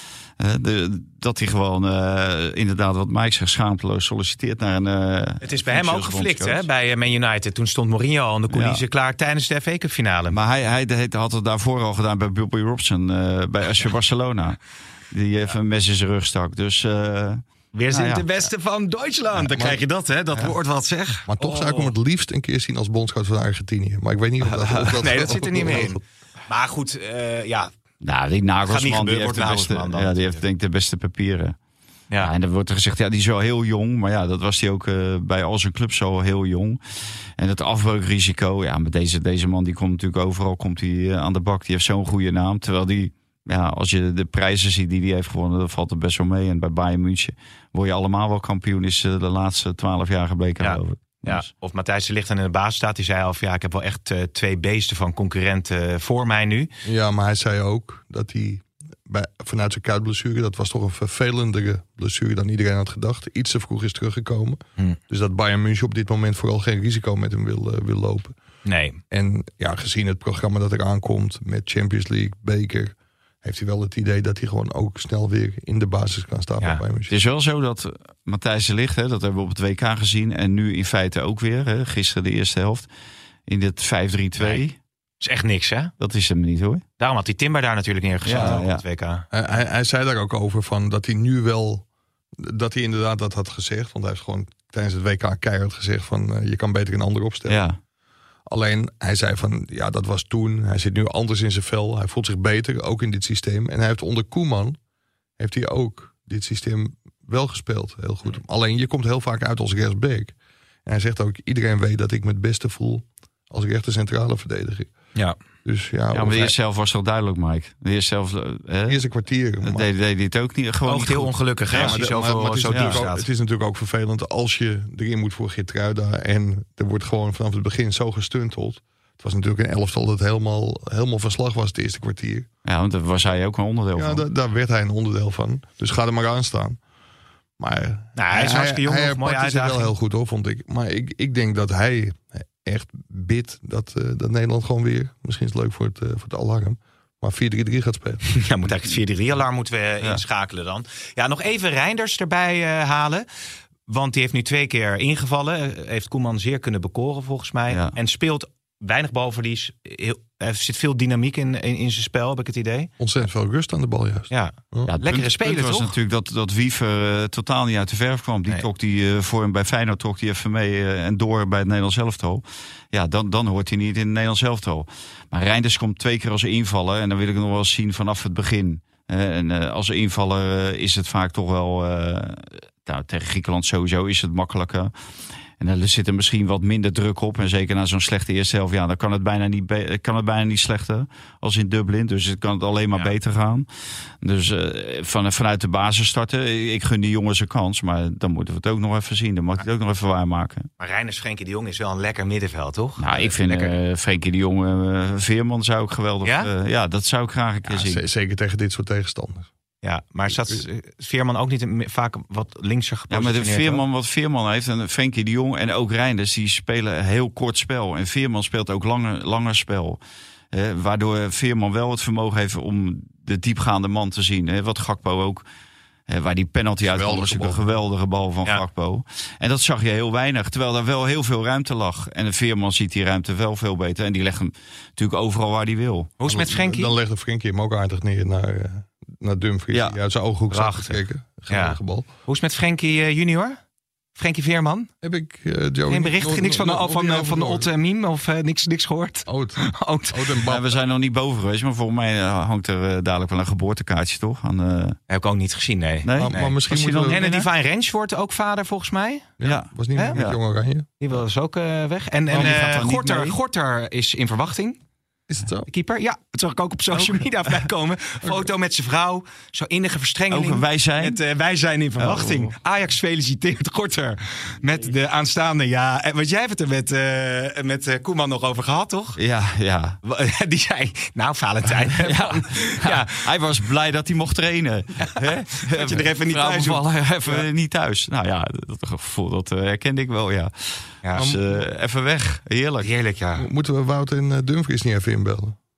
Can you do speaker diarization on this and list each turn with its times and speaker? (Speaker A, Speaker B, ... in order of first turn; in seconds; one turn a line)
Speaker A: 0.4-6.7
Speaker B: 5.4-10.4
Speaker A: 8.5-8.8
Speaker A: 10.3-14.6
Speaker A: 15.1-18.2
Speaker B: 17.7-21.9
Speaker C: 19.4-19.8
Speaker C: 21.3-26.0
Speaker B: 24.5-27.7
Speaker A: 28.0-31.6
Speaker B: 28.7-30.4
Speaker A: 32.2-36.8
Speaker A: 37.4-51.5
Speaker B: 50.6-56.7
Speaker C: 56.8-68.3
Speaker B: 68.7-69.0
Speaker C: 69.1-77.1
Speaker A: 77.1-82.9
Speaker A: 83.5-84.8
Speaker B: 84.4-84.6
Speaker B: 85.2-85.9
Speaker A: 86.0-86.8
Speaker B: 87.0-89.3
Speaker A: 88.2-88.8
Speaker C: 89.3-91.8
Speaker C: 92.4-97.6
Speaker A: 97.5-97.8
Speaker C: 98.5-104.8
Speaker C: 105.4-114.9
Speaker C: 115.7-116.5
Speaker A: 116.1-119.0
Speaker C: 118.9-119.9
Speaker A: 119.6-122.0
Speaker B: 120.9-123.3
Speaker C: 121.7-132.5
Speaker A: 122.7-123.0
Speaker A: 132.7-134.2
Speaker C: 133.9-136.8
Speaker C: 137.6-148.2
Speaker B: 138.2-139.9
Speaker B: 148.3-153.3
Speaker B: 153.9-162.9
Speaker A: 157.7-157.9
Speaker C: 163.0-164.9
Speaker B: 164.3-165.9
Speaker A: 164.9-184.9
Speaker A: 185.6-193.7
Speaker A: 194.2-200.7
Speaker B: 200.8-203.7
Speaker A: 203.0-208.0
Speaker B: 206.2-206.5
Speaker C: 207.7-209.5
Speaker B: 209.8-213.8
Speaker A: 213.1-220.0
Speaker A: 220.5-225.4
Speaker A: 226.1-236.1
Speaker C: 226.8-227.6
Speaker B: 236.2-236.9
Speaker C: 236.2-242.1
Speaker B: 240.5-243.6
Speaker B: 244.2-244.9
Speaker C: 245.0-247.7
Speaker B: 245.9-250.4
Speaker C: 249.3-250.7
Speaker A: 250.5-255.0
Speaker B: 255.1-259.3
Speaker A: 256.1-257.5
Speaker C: 256.2-257.2
Speaker C: 259.4-260.9
Speaker A: 259.4-260.4
Speaker B: 261.0-264.8
Speaker A: 262.3-263.4
Speaker C: 265.3-265.7
Speaker B: 265.7-279.2
Speaker A: 270.3-271.2
Speaker A: 272.0-272.5
Speaker A: 279.2-280.0
Speaker B: 280.0-283.2
Speaker A: 282.0-292.9
Speaker B: 285.0-287.4
Speaker B: 291.0-291.3
Speaker C: 291.2-291.7
Speaker B: 292.8-293.5
Speaker C: 293.4-295.6